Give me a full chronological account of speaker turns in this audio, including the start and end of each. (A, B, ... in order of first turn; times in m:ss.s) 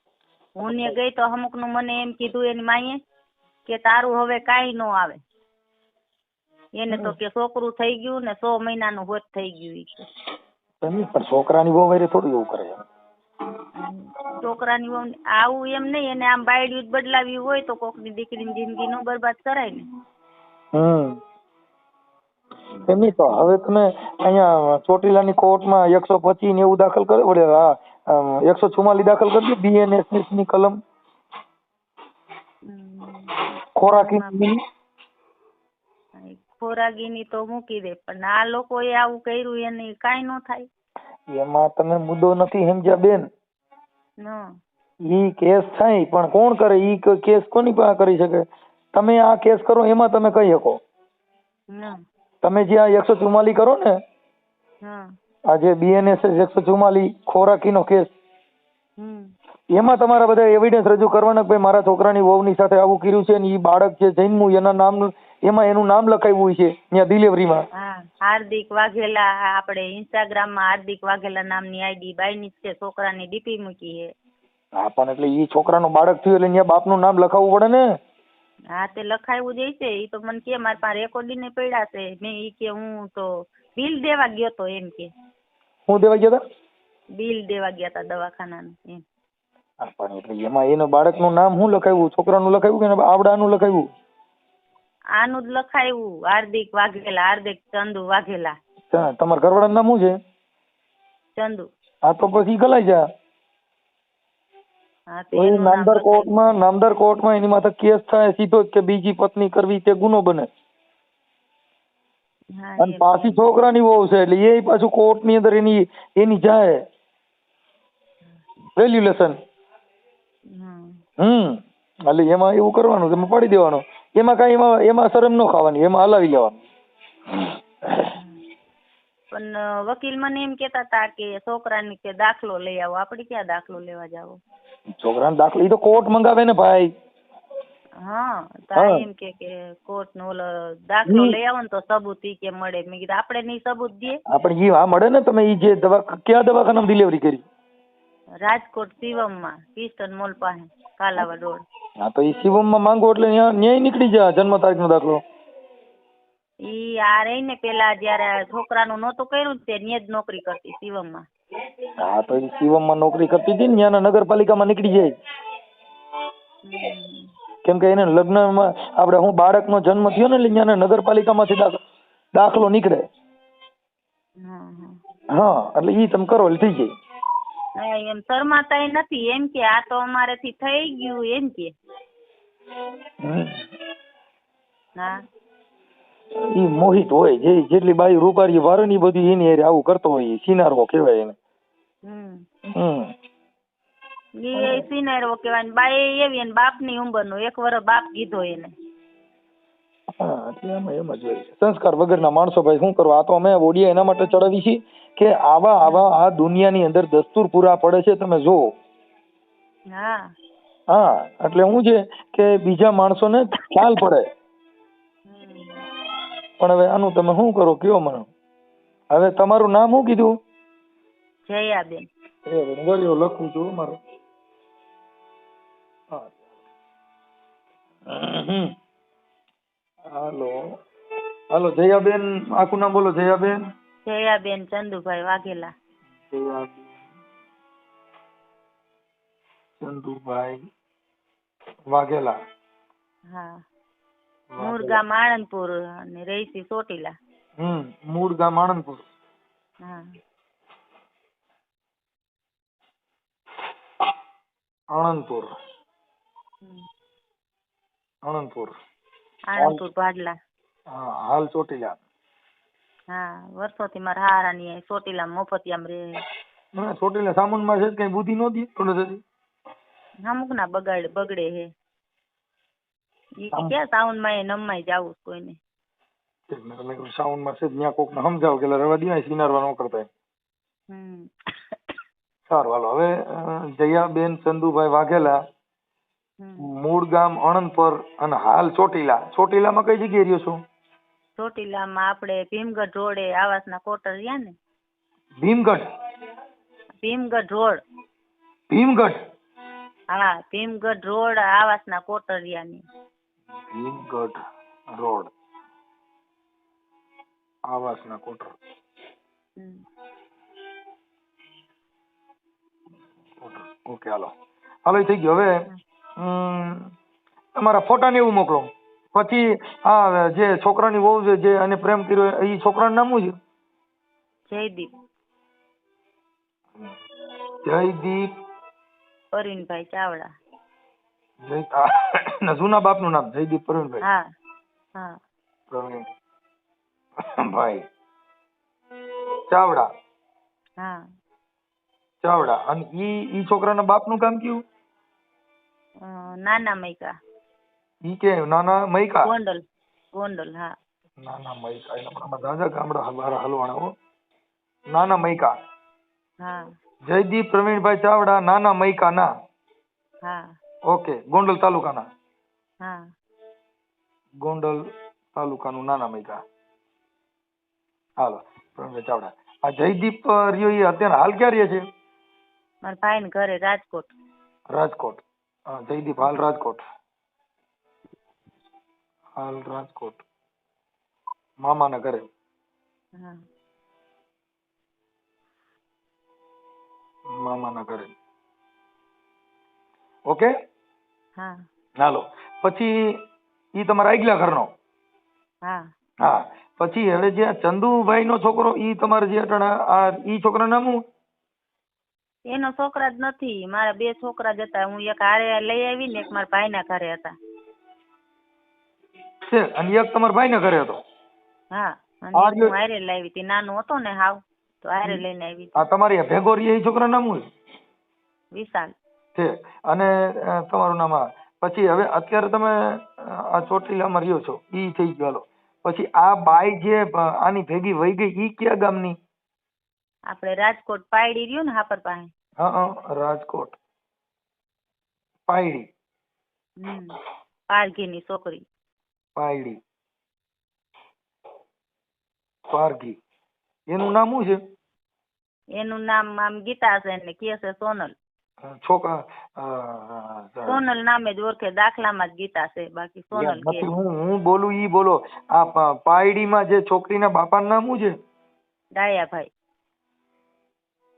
0:00.6-0:01.0 A
0:00.6-0:03.0 B
0:03.7-0:05.2 B
0:06.8-0:10.1 B
0:06.9-0:07.2 A
0:10.8-0:12.8 A
0:13.8-0:19.8 B
0:20.7-0:21.2 A
0:22.8-0:23.4 B
0:22.9-0:30.8 A
0:32.7-0:34.4 B
0:33.8-0:34.6 A
0:36.2-0:40.7 B
0:41.3-0:43.3 A
0:44.2-0:44.5 B
0:45.1-0:50.8 A
0:51.7-0:52.0 B
0:52.4-0:54.0 A
0:54.8-0:55.1 B
0:55.5-0:58.1 A
0:59.0-0:59.3 B
0:59.7-1:07.6 A
1:07.8-1:14.1 B
1:14.8-1:17.8 A
1:18.8-1:25.1 B
1:25.9-1:26.4 A
1:27.2-1:29.0 B
1:29.8-1:33.9 A
1:35.2-1:38.6 B
1:38.9-1:40.2 A
1:41.4-1:41.7 B
1:42.0-1:43.0 A
1:45.1-1:46.4 B
1:45.4-1:50.5 A
1:52.6-1:53.4 B
1:52.8-1:56.8 A
1:58.8-1:59.4 A
2:00.6-2:01.0 B
2:01.2-2:06.6 A
2:08.1-2:08.4 B
2:09.3-2:14.4 B
2:15.0-2:16.9 A
2:18.0-2:24.2 B
2:18.8-2:19.0 A
2:21.1-2:21.4 A
2:24.3-2:27.4 A
2:28.4-2:31.6 B
2:32.0-2:35.2 A
2:36.7-2:41.2 B
2:42.0-2:45.1 A
2:46.7-2:47.3 B
2:47.6-2:51.8 A
2:52.3-2:53.0 A
2:54.4-2:55.0 B
2:55.3-2:56.9 A
2:57.8-3:01.7 B
3:03.2-3:03.6 A
3:06.5-3:11.4 A
3:12.1-3:12.4 B
3:12.8-3:13.1 A
3:14.4-3:18.7 B
3:14.6-3:14.9 A
3:20.2-3:28.7 A
3:29.9-3:30.3 B
3:30.9-3:34.2 A
3:35.3-3:35.8 B
3:36.6-3:38.3 A
3:39.1-3:40.3 A
3:41.5-3:42.1 B
3:42.5-3:44.0 A
3:46.1-3:46.4 A
3:48.1-3:48.7 A
3:50.1-3:50.6 A
3:51.5-3:53.6 A
3:54.1-3:55.7 B
3:56.3-3:57.0 A
3:59.8-4:00.6 A
4:01.9-4:02.3 A
4:03.3-4:03.6 B
4:04.5-4:05.0 A
4:04.6-4:07.1 B
4:07.6-4:09.0 A
4:14.9-4:15.5 A
4:18.2-4:18.7 A
4:19.5-4:20.4 B
4:20.9-4:22.0 A
4:23.1-4:26.2 B
4:26.8-4:29.2 A
4:30.3-4:31.7 B
4:33.4-4:35.6 B
4:36.5-4:40.1 A
4:40.9-4:41.3 B
4:42.5-4:45.4 A
4:46.4-4:46.7 B
4:46.6-4:50.6 A
4:51.4-4:54.5 B
4:55.4-4:55.9 A
4:57.0-4:57.8 B
4:58.7-4:59.2 A
5:00.1-5:02.8 B
5:03.7-5:04.4 A
5:04.9-5:05.3 A
5:07.7-5:08.6 A
5:13.4-5:14.3 A
5:14.8-5:15.5 A
5:16.2-5:16.9 A
5:17.6-5:23.4 A
5:24.5-5:24.9 B
5:27.6-5:28.3 A
5:29.3-5:30.3 B
5:31.4-5:34.0 A
5:34.0-5:34.3 B
5:35.7-5:36.1 A
5:37.2-5:37.9 A
5:39.5-5:39.9 A
5:42.2-5:44.6 A
5:46.0-5:47.1 B
5:48.0-5:49.3 A
5:49.2-5:49.6 B
5:50.1-5:50.8 B
5:51.2-5:53.9 A
5:54.9-5:55.5 A
5:56.4-5:56.7 B
5:57.1-5:59.3 A
6:00.2-6:00.5 B
6:00.9-6:02.1 A
6:04.4-6:04.8 A
6:05.4-6:06.4 A
6:08.2-6:11.8 A
6:12.8-6:14.1 B
6:14.7-6:16.8 A
6:19.4-6:20.2 A
6:21.6-6:22.3 A
6:23.2-6:23.4 B
6:27.3-6:28.1 A
6:31.4-6:31.6 B
6:32.0-6:33.2 A
6:33.8-6:34.7 A
6:36.2-6:41.0 A
6:42.5-6:47.3 B
6:49.5-6:51.0 A
6:51.7-6:55.8 B
6:52.4-6:52.7 A
6:55.8-6:57.4 A
6:58.5-6:58.9 B
6:59.4-7:09.2 A
7:10.3-7:12.3 B
7:12.6-7:13.8 A
7:15.5-7:15.9 A
7:16.8-7:17.2 B
7:17.7-7:18.6 B
7:19.4-7:19.8 A
7:22.7-7:23.2 A
7:23.9-7:24.6 A
7:25.8-7:28.1 B
7:28.6-7:30.8 A
7:30.7-7:33.9 B
7:33.4-7:38.1 A
7:39.0-7:39.5 B